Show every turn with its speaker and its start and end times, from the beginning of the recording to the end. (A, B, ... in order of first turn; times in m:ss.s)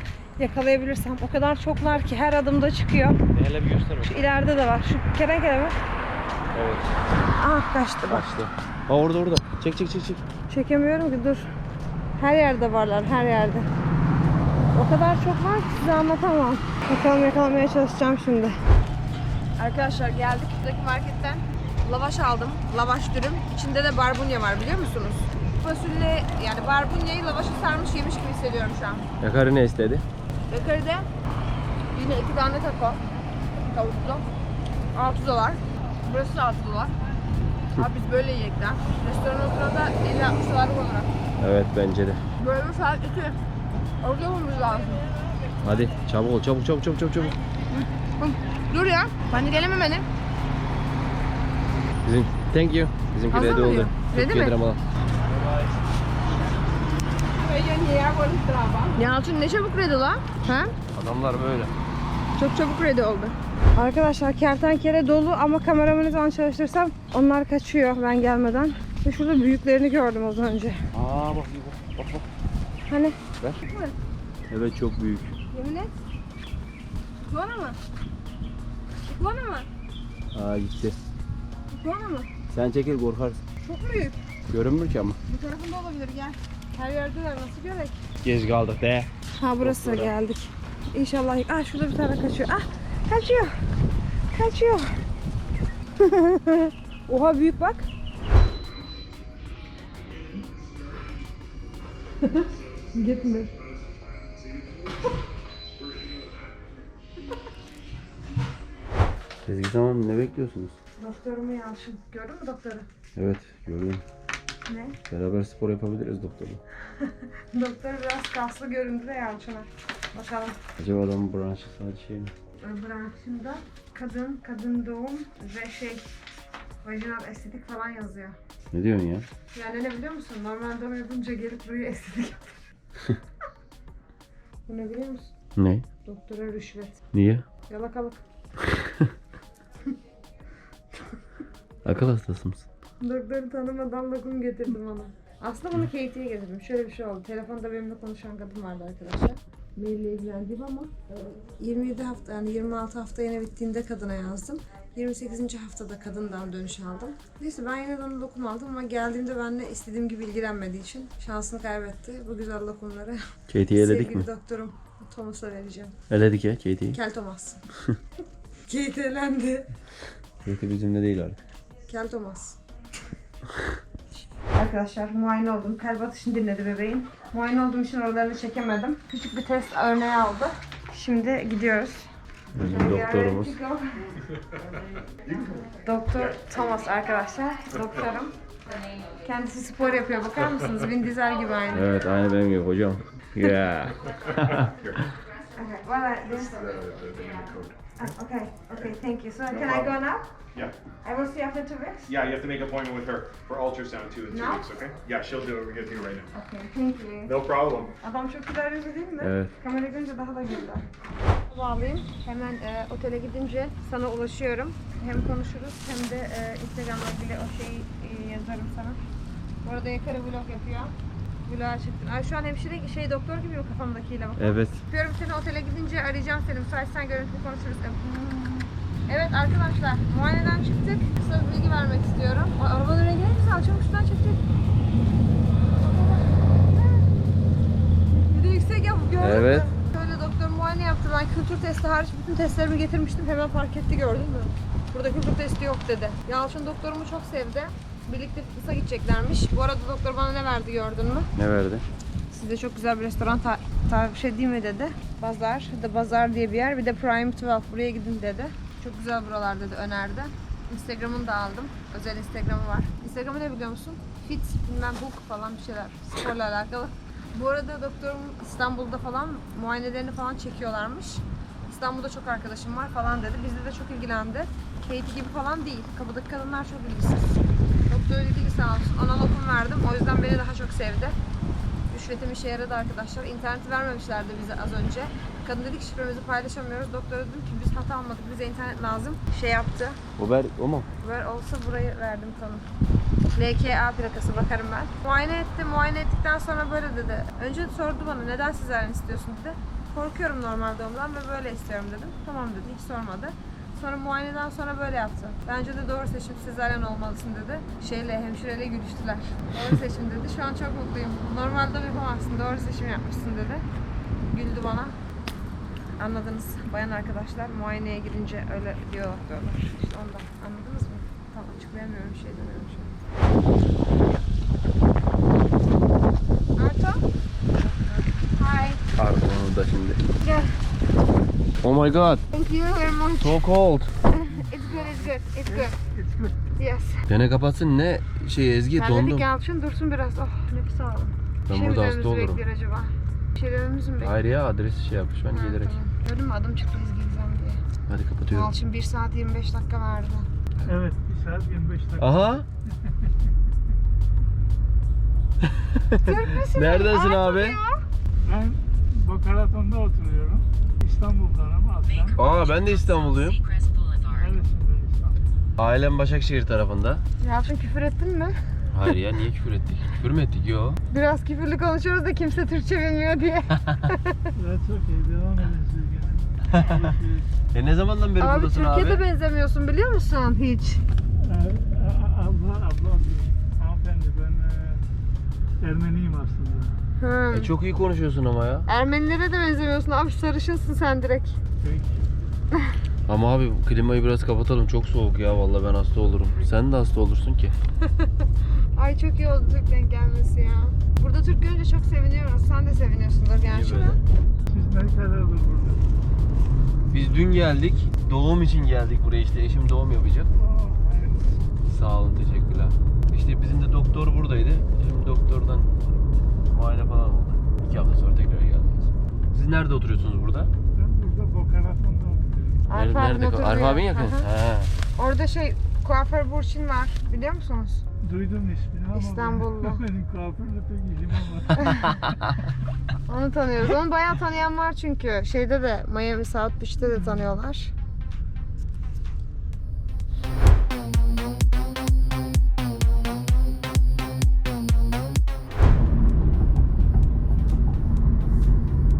0:00.4-0:03.2 A
0:03.3-0:04.3 B
0:04.0-0:05.8 A
0:06.5-0:06.9 B
0:07.4-0:08.3 A
0:08.1-0:10.2 B
0:10.5-0:11.5 A
0:12.2-0:13.7 A
0:14.7-0:18.6 A
0:19.6-0:29.1 A
0:29.2-0:30.0 B
0:30.5-0:31.1 A
0:31.9-0:33.0 A
0:33.5-0:34.2 A
0:34.9-0:36.9 A
0:37.8-0:41.1 A
0:41.4-0:42.2 B
0:42.4-0:43.4 A
0:44.0-0:45.1 A
0:45.6-0:47.4 B
0:47.7-0:50.0 A
0:52.0-0:55.7 B
0:53.3-0:54.6 A
0:57.2-1:00.7 A
1:00.9-1:01.7 B
1:02.4-1:10.8 A
1:10.9-1:12.2 B
1:12.9-1:13.9 A
1:14.5-1:15.3 B
1:15.5-1:16.0 A
1:17.2-1:17.8 A
1:19.0-1:19.7 A
1:20.3-1:21.0 B
1:21.7-1:22.3 A
1:22.5-1:23.4 B
1:23.6-1:24.2 A
1:24.5-1:25.2 B
1:25.3-1:28.0 A
1:28.2-1:29.1 B
1:29.4-1:33.6 A
1:29.6-1:30.1 B
1:34.3-1:34.9 A
1:36.0-1:37.9 A
1:42.2-1:43.5 A
1:49.4-1:50.7 B
1:51.0-1:52.9 A
1:53.2-1:54.0 B
1:54.6-1:55.0 A
1:55.1-1:56.6 B
1:57.0-2:00.6 A
2:00.8-2:02.3 B
2:02.6-2:06.1 A
2:06.8-2:08.4 A
2:08.7-2:09.2 B
2:09.5-2:12.6 A
2:14.7-2:15.3 A
2:15.6-2:15.8 B
2:16.0-2:17.0 A
2:17.1-2:17.4 B
2:17.7-2:18.2 A
2:18.8-2:19.0 B
2:21.8-2:22.6 B
2:23.0-2:43.2 A
2:43.5-2:44.3 B
2:43.7-2:46.0 A
2:46.1-2:47.0 B
2:46.9-2:47.6 A
2:48.7-2:49.7 A
2:50.4-2:51.4 B
2:51.9-2:52.6 A
2:54.5-3:03.8 A
3:02.5-3:03.5 B
3:05.3-3:05.5 C
3:05.7-3:08.3 A
3:09.1-3:11.9 A
3:11.7-3:14.7 B
3:14.7-3:15.0 C
3:15.5-3:16.8 A
3:16.6-3:17.7 C
3:18.0-3:20.3 A
3:19.6-3:19.9 C
3:21.0-3:22.1 A
3:22.1-3:26.3 C
3:24.3-3:24.8 A
3:26.3-3:27.4 A
3:27.2-3:27.9 C
3:28.0-3:30.9 A
3:29.2-3:29.5 B
3:31.5-3:39.0 A
3:39.6-3:40.9 A
3:41.4-3:54.4 A
3:44.4-3:44.8 B
3:55.7-3:57.1 A
3:58.3-4:11.3 A
3:59.2-3:59.7 B
4:11.4-4:11.8 B
4:12.3-4:41.2 A
4:41.9-4:50.0 A
4:50.2-4:50.9 B
4:51.0-4:52.7 A
4:53.3-5:13.6 A
5:14.3-5:14.9 A
5:16.0-5:23.0 A
5:26.6-5:27.0 A
5:28.4-5:28.8 A
5:28.9-5:30.0 B
5:30.2-5:30.6 A
5:31.6-5:32.2 B
5:32.3-5:33.4 A
5:33.2-5:33.9 B
5:34.1-5:35.7 A
5:35.5-5:36.4 D
5:36.6-5:37.0 A
5:37.1-5:39.2 B
5:38.8-5:44.1 A
5:41.5-5:42.4 B
5:44.0-5:45.8 B
5:45.3-5:47.6 A
5:47.9-5:48.5 B
5:48.3-5:50.3 A
5:50.6-5:52.2 D
5:52.0-5:52.4 B
5:55.7-5:57.6 B
5:56.0-5:57.8 A
5:58.2-6:02.2 D
6:02.1-6:03.4 B
6:04.1-6:05.2 D
6:05.6-6:07.0 B
6:07.2-6:08.4 A
6:08.7-6:10.8 B
6:10.9-6:14.3 A
6:14.4-6:17.3 D
6:17.5-6:19.0 B
6:18.2-6:20.8 A
6:21.2-6:24.8 D
6:25.6-6:26.7 D
6:27.0-6:27.5 A
6:27.3-6:28.6 B
6:28.7-6:31.4 A
6:31.6-6:32.0 D
6:33.1-6:37.5 B
6:38.7-6:44.0 A
6:43.5-6:44.0 B
6:44.5-6:45.8 D
6:46.9-6:50.3 B
6:50.4-6:51.4 D
6:51.6-6:55.7 B
6:56.5-7:00.5 B
7:00.7-7:02.6 D
7:02.7-7:04.2 A
7:02.7-7:04.7 B
7:05.0-7:07.8 A
7:08.0-7:12.2 D
7:08.9-7:09.8 A
7:13.0-7:17.7 A